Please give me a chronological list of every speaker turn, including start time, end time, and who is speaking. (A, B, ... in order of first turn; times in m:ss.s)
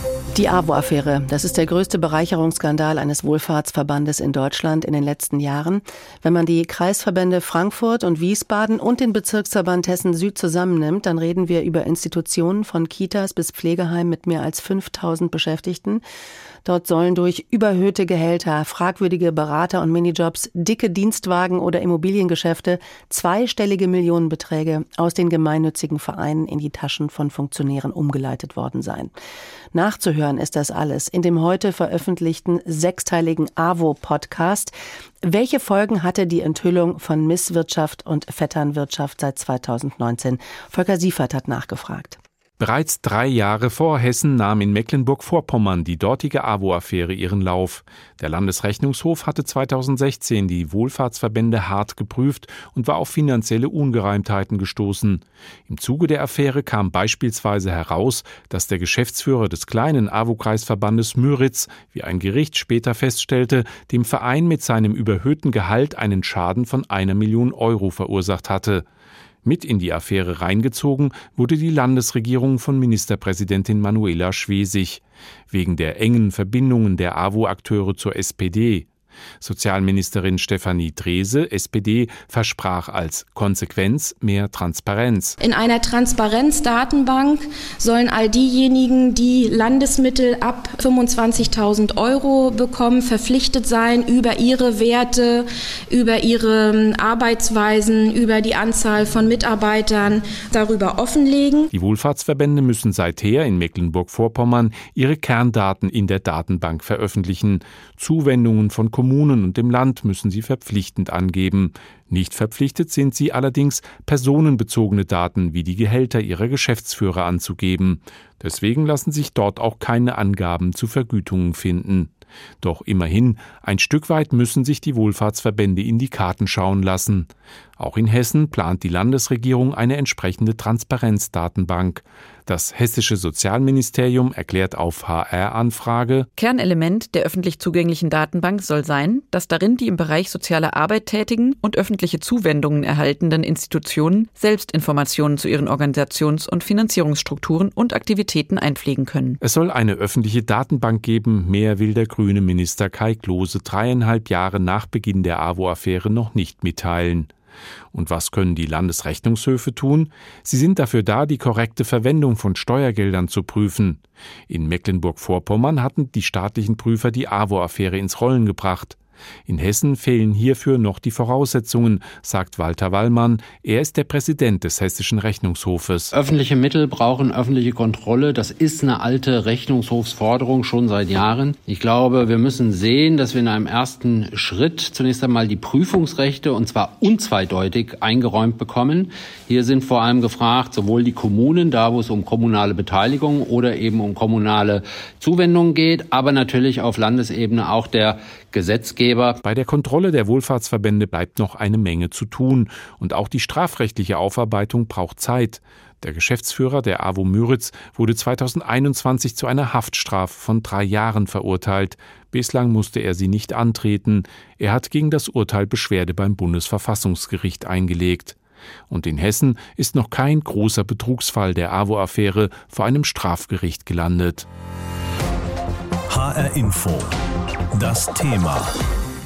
0:00.3-0:16.0 A
0:16.6-0:29.1 A
0:29.7-0:34.7 A
0:35.2-0:42.2 A
0:42.6-1:08.8 B
1:09.4-1:18.9 B
1:19.4-1:25.4 B
1:25.4-1:41.6 C
1:41.7-2:16.3 B
2:16.4-2:29.4 D
2:29.4-2:37.3 B
2:37.9-2:56.1 B
2:56.1-3:19.4 E
3:19.4-3:38.4 B
3:38.9-3:44.5 B
3:46.1-3:47.2 F
3:47.7-3:48.8 F